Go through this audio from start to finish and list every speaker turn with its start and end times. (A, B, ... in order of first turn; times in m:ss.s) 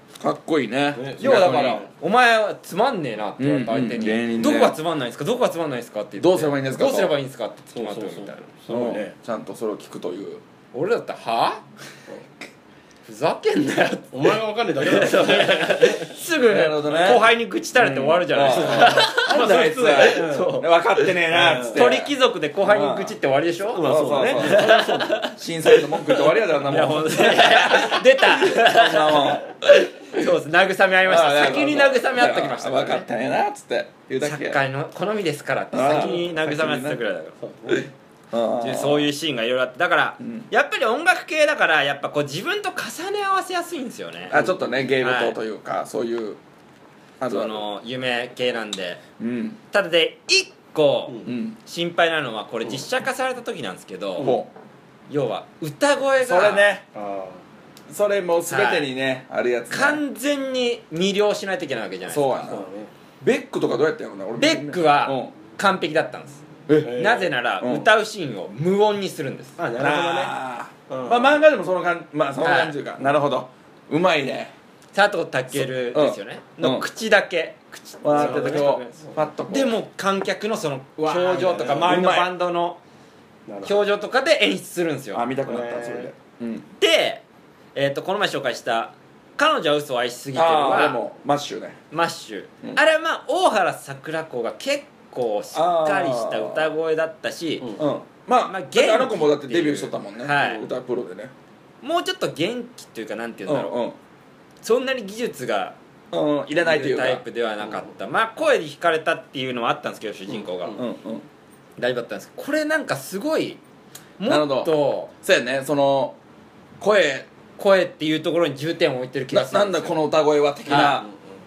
0:00.2-0:01.9 A
0:01.0-0:01.9 B
0:01.2-0:08.5 C
0:03.4-0:04.8 A
0:06.2-0:07.2 A
0:07.7-0:09.1 B
0:08.7-0:10.4 A
0:10.7-0:11.6 C
0:13.1-0:21.2 C
0:14.1-0:16.1 B
0:16.4-0:23.2 A
0:18.6-0:19.0 B
0:20.0-0:20.5 B
0:21.3-0:21.9 B
0:21.7-0:25.4 C
0:23.7-0:30.3 A
0:23.8-0:25.2 B
0:26.0-0:33.1 C
0:31.0-0:34.6 A
0:34.2-0:37.4 C
0:35.7-0:37.0 A
0:37.4-0:37.9 B
0:37.7-0:39.1 A
0:38.6-0:44.4 C
0:40.2-0:40.5 A
0:44.3-0:46.4 A
0:44.4-0:44.7 B
0:45.0-0:45.4 C
0:47.2-0:47.6 A
0:47.3-0:49.0 C
0:49.2-0:49.6 A
0:49.7-0:54.4 C
0:51.2-0:51.6 A
0:54.2-0:54.5 A
0:55.1-0:56.7 C
0:56.2-0:56.9 A
0:56.9-0:57.4 B
0:57.9-1:00.0 A
0:58.5-0:58.9 C
0:59.7-1:02.6 C
1:02.0-1:02.7 A
1:02.5-1:02.9 B
1:03.2-1:05.3 A
1:04.4-1:09.6 C
1:06.7-1:07.0 A
1:06.7-1:07.3 B
1:07.6-1:07.9 A
1:09.6-1:10.4 B
1:09.8-1:14.5 A
1:10.9-1:11.4 B
1:12.4-1:12.8 C
1:14.9-1:22.8 C
1:15.5-1:16.9 A
1:18.0-1:19.8 A
1:18.1-1:19.2 B
1:21.0-1:22.0 B
1:21.2-1:22.3 A
1:23.5-1:23.8 B
1:23.6-1:25.3 C
1:25.1-1:26.7 A
1:25.4-1:26.1 B
1:26.8-1:27.2 C
1:27.8-1:31.0 C
1:30.3-1:31.8 A
1:31.9-1:37.8 C
1:35.5-1:36.7 A
1:37.8-1:41.3 A
1:38.4-1:40.7 C
1:41.8-1:43.8 C
1:43.5-1:44.0 A
1:44.6-1:45.8 C
1:46.1-1:47.2 A
1:46.5-1:50.8 C
1:50.3-1:50.8 B
1:50.8-1:51.3 A
1:51.8-1:53.6 C
1:54.2-1:55.1 C
1:54.2-1:56.2 A
1:56.8-1:57.3 A
1:57.6-2:00.0 C
1:59.3-2:01.1 A
2:00.7-2:01.0 C
2:00.7-2:01.3 B